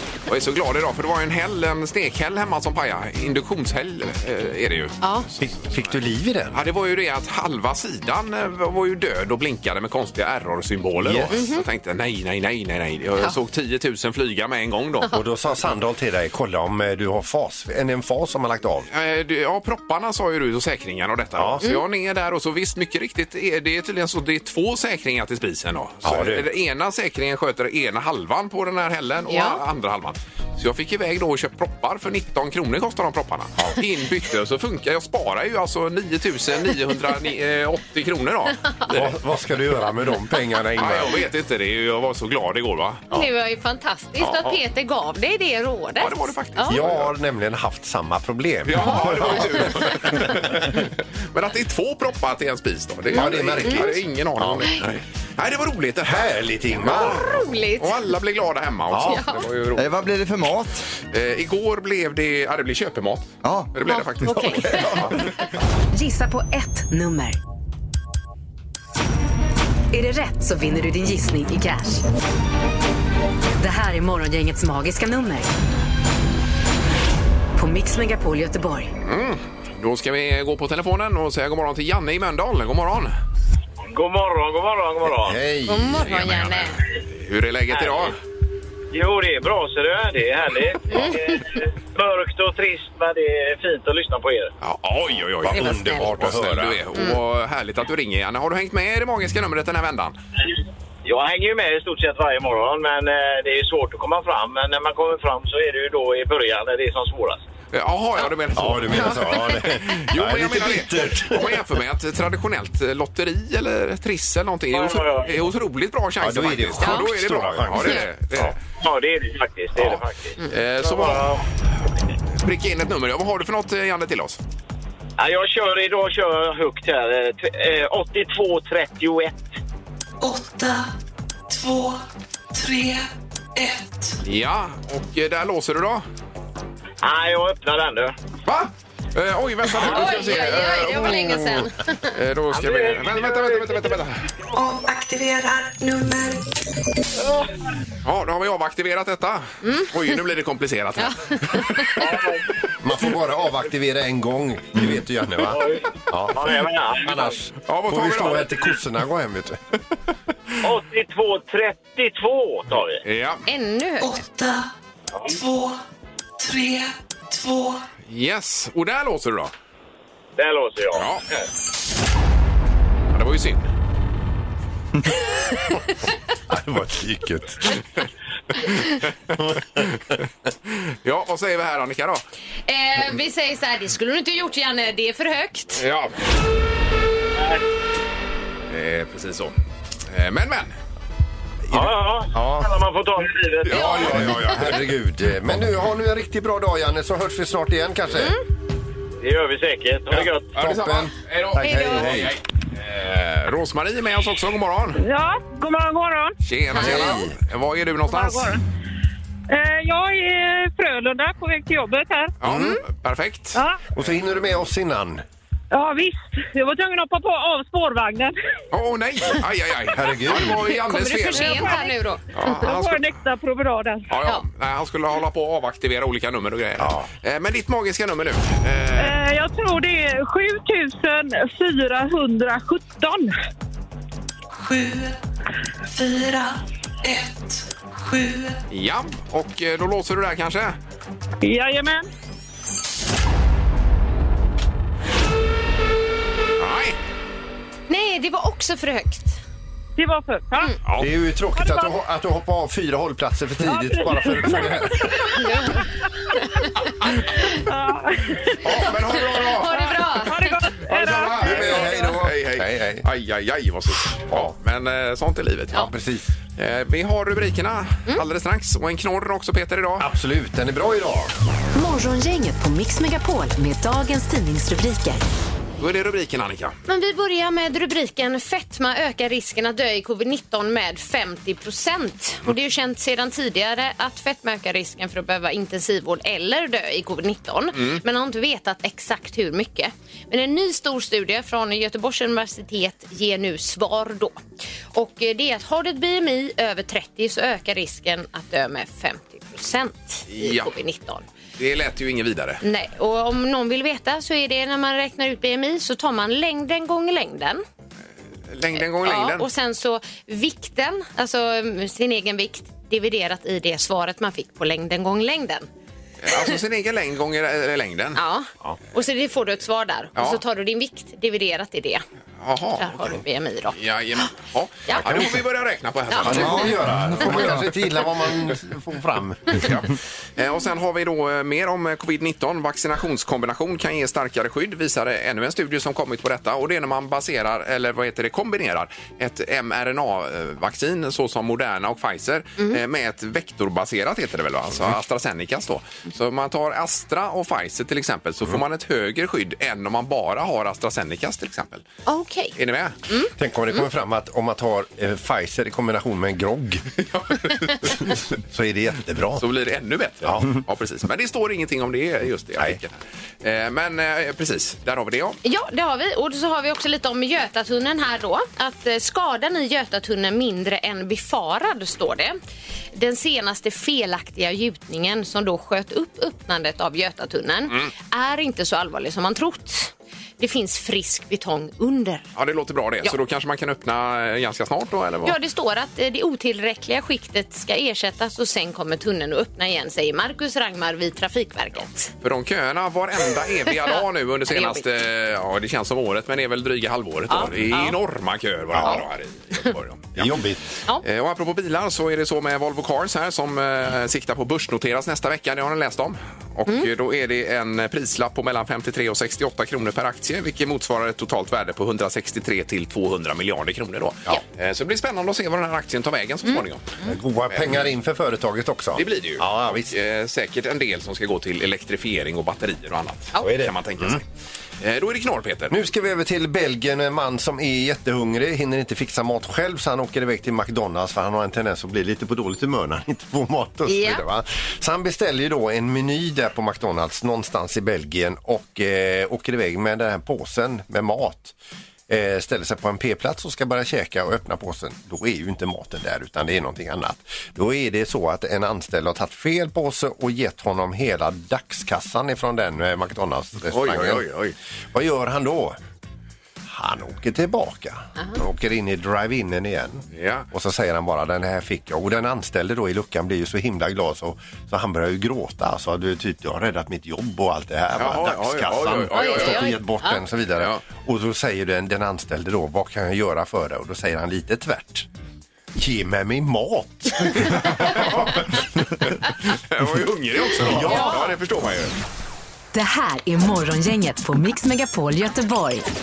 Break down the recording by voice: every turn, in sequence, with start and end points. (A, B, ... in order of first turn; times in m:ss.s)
0:00.3-0:05.5 A
0:05.0-0:05.3 B
0:05.4-0:06.6 C
0:06.5-0:15.2 A
0:11.0-0:11.4 C
0:11.3-0:11.6 B
0:15.1-0:18.9 C
0:18.9-0:39.2 A
0:21.4-0:21.6 C
0:26.0-0:26.5 C
0:29.3-0:29.6 B
0:38.9-0:41.2 C
0:40.8-0:43.1 A
0:43.1-0:46.8 B
0:44.2-0:44.6 A
0:46.0-0:47.1 A
0:46.7-0:50.7 C
0:48.7-0:59.9 A
0:48.8-0:50.0 B
0:53.1-0:54.7 C
0:53.1-0:53.9 B
0:56.0-0:57.3 C
0:57.1-0:58.0 B
0:58.9-0:59.2 C
0:59.0-0:59.4 B
0:59.8-1:00.8 D
1:01.1-1:05.2 A
1:03.4-1:03.7 D
1:03.9-1:05.3 B
1:05.9-1:07.4 E
1:09.9-1:12.0 E
1:13.6-1:15.5 E
1:17.6-1:18.9 E
1:19.0-1:23.1 A
1:23.9-1:25.4 F
1:25.1-1:26.1 C
1:25.7-1:26.8 B
1:26.0-1:28.2 A
1:27.7-1:28.1 F
1:28.9-1:34.5 F
1:30.9-1:31.4 B
1:34.6-1:40.2 A
1:35.4-1:36.9 C
1:35.5-1:36.1 B
1:41.0-1:47.5 F
1:47.7-1:58.6 A
1:48.5-1:51.6 C
1:54.7-1:55.4 F
1:56.2-1:58.6 C
1:56.8-1:57.1 B
1:58.8-2:01.4 F
2:00.5-2:01.4 A
2:02.4-2:04.4 A
2:05.2-2:09.4 F
2:10.2-2:10.9 G
2:11.5-2:12.0 G
2:12.5-2:14.2 G
2:14.2-2:16.0 A
2:17.0-2:18.2 F
2:18.4-2:24.3 A
2:19.8-2:22.1 B
2:22.5-2:23.8 F
2:24.5-2:26.4 G
2:28.0-2:32.0 A
2:29.6-2:29.9 B
2:31.0-2:32.0 B
2:32.0-2:32.4 F
2:32.8-2:39.6 C
2:35.5-2:37.2 F
2:37.7-2:38.7 A
2:40.6-2:43.0 F
2:43.0-2:43.4 A
2:43.5-2:44.1 B
2:44.0-2:44.7 G
2:45.2-2:45.8 G
2:46.4-2:47.8 G
2:48.1-2:49.5 A
2:50.4-2:51.1 F
2:50.9-2:51.2 A
2:53.1-2:53.7 A
2:56.5-2:57.8 C
2:58.6-3:00.0 A
2:59.4-2:59.8 C
3:00.7-3:02.2 A
3:02.7-3:05.8 B
3:05.8-3:06.2 A
3:08.7-3:09.5 A
3:10.1-3:10.8 A
3:11.7-3:12.7 C
3:11.7-3:13.9 F
3:13.7-3:14.5 A
3:13.7-3:18.4 C
3:13.7-3:14.8 B
3:19.2-3:20.5 F
3:20.5-3:25.0 A
3:20.6-3:22.4 C
3:25.0-3:26.3 H
3:26.4-3:28.6 A
3:26.7-3:27.4 C
3:26.7-3:27.2 B
3:28.1-3:28.6 H
3:29.5-3:32.3 H
3:32.4-3:33.6 A
3:32.4-3:32.7 C
3:34.0-3:35.2 C
3:35.7-3:38.4 H
3:38.7-3:41.8 A
3:39.9-3:40.7 C
3:40.6-3:42.2 B
3:41.3-3:44.0 H
3:42.3-3:43.1 A
3:44.1-3:49.2 A
3:46.8-3:47.1 C
3:49.0-3:53.3 H
3:54.5-3:55.2 G
3:55.9-3:58.6 G
3:58.7-4:00.8 A
4:01.4-4:02.1 H
4:06.6-4:07.0 A
4:07.9-4:09.4 B
4:10.0-4:10.8 H
4:11.0-4:15.3 C
4:11.6-4:11.9 H
4:13.6-4:15.1 H
4:15.4-4:16.7 B
4:17.5-4:18.6 H
4:18.6-4:19.9 A
4:18.8-4:20.6 B
4:19.7-4:22.1 H
4:20.9-4:25.9 A
4:21.4-4:23.1 C
4:21.6-4:22.3 D
4:25.7-4:26.3 C
4:26.6-4:30.1 A
4:30.0-4:31.3 C
4:31.8-4:35.2 E
4:35.8-4:36.8 A
4:36.9-4:54.4 B
4:54.9-5:01.3 B
5:00.3-5:00.7 A
5:01.6-5:02.6 A
5:02.6-5:07.6 B
5:08.5-5:09.5 A
5:08.8-5:15.7 B
5:16.2-5:18.2 A
5:18.2-5:22.0 B
5:20.2-5:20.4 A
5:22.4-5:26.8 A
5:22.8-5:23.8 B
5:24.9-5:25.3 B
5:25.0-5:25.4 C
5:26.1-5:26.7 B
5:26.2-5:29.7 C
5:26.3-5:27.7 D
5:29.5-5:51.8 A
5:52.1-5:52.6 B
5:52.6-5:53.0 A
5:53.4-5:56.8 C
5:57.0-5:58.2 A
5:58.1-5:59.4 C
5:59.4-6:05.4 A
6:00.2-6:00.6 C
6:05.4-6:12.4 B
6:12.9-6:22.2 B
6:22.4-6:25.4 A
6:25.2-6:32.1 B
6:32.2-6:40.4 A
6:33.7-6:34.8 B
6:37.3-6:38.0 B
6:38.7-6:39.0 C
6:40.2-6:40.6 C
6:41.0-6:57.0 A
6:56.5-6:57.1 B
6:57.0-7:00.0 C
6:57.5-6:57.8 A
6:59.0-7:04.2 A
7:03.4-7:04.2 C
7:04.8-7:05.8 A
7:05.7-7:21.6 C
7:13.9-7:14.2 B
7:22.1-7:34.3 C
7:33.7-7:34.6 A
7:34.9-7:35.8 C
7:36.7-7:55.1 C
7:40.1-7:40.5 A
7:48.0-7:49.8 A
7:49.1-7:50.2 B
7:50.6-7:50.8 A
7:55.8-7:58.6 C
7:57.5-8:01.9 A
8:00.6-8:01.2 C
8:00.8-8:01.3 B
8:02.7-8:05.8 E